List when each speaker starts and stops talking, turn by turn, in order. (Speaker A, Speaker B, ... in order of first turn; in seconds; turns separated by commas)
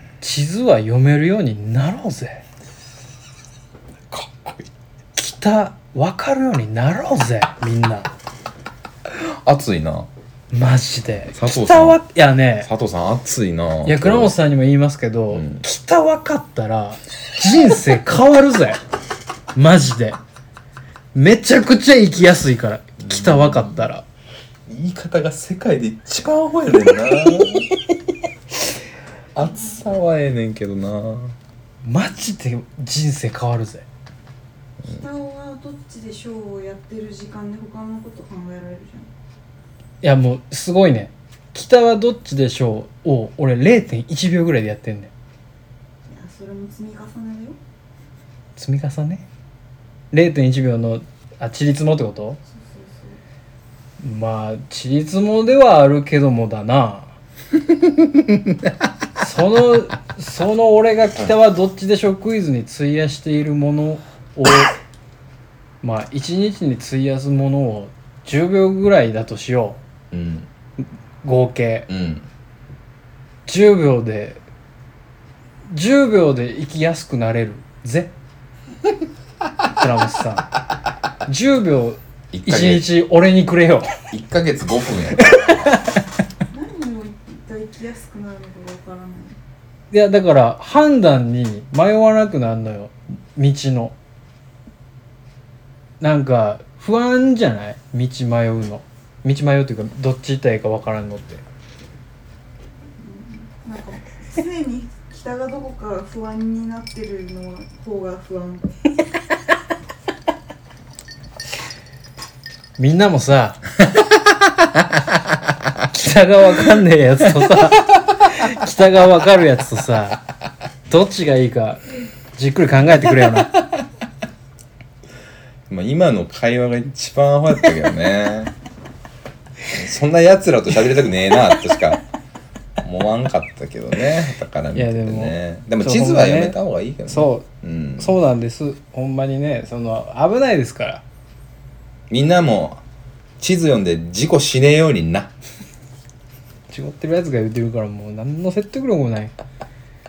Speaker A: 0.2-2.4, Speaker B: 4.1-4.7, Speaker A: 5.2-8.1, Speaker B: 9.1-10.1, Speaker A: 10.5-12.7, Speaker B: 11.3-12.0, Speaker B: 12.6-14.3, Speaker A: 13.8-18.8, Speaker B: 15.3-15.6, Speaker A: 19.5-20.2, Speaker A: 21.1-24.0, Speaker B: 23.0-23.9, Speaker B: 24.7-27.7, Speaker B: 29.3-31.4, Speaker C: 29.4-30.0, Speaker A: 31.8-33.8, Speaker C: 34.8-39.1, Speaker A: 40.0-45.1, Speaker C: 46.0-47.6, Speaker A: 48.6-49.3, Speaker A: 50.1-52.4, Speaker C: 52.5-53.2, Speaker A: 54.0-57.1, Speaker B: 57.7-58.7, Speaker A: 59.2-64.7, Speaker A: 65.8-69.8, Speaker B: 70.1-70.5, Speaker A: 71.2-71.9, Speaker B: 71.9-72.3, Speaker A: 73.5-74.4, Speaker A: 75.7-78.1, Speaker A: 79.7-80.5, Speaker A: 81.2-84.0, Speaker B: 82.3-82.9, Speaker B: 84.1-85.8, Speaker A: 85.2-86.0, Speaker C: 86.5-89.4, Speaker A: 89.9-93.9, Speaker A: 96.0-101.4, Speaker C: 103.0-108.7, Speaker A: 112.8-113.6, Speaker A: 115.9-120.2, Speaker A: 120.9-123.6, Speaker B: 125.7-128.5, Speaker B: 129.7-132.0, Speaker B: 132.8-138.2, Speaker A: 134.7-137.5, Speaker A: 138.0-141.0, Speaker B: 142.1-142.8, Speaker B: 143.4-145.3, Speaker A: 146.7-149.3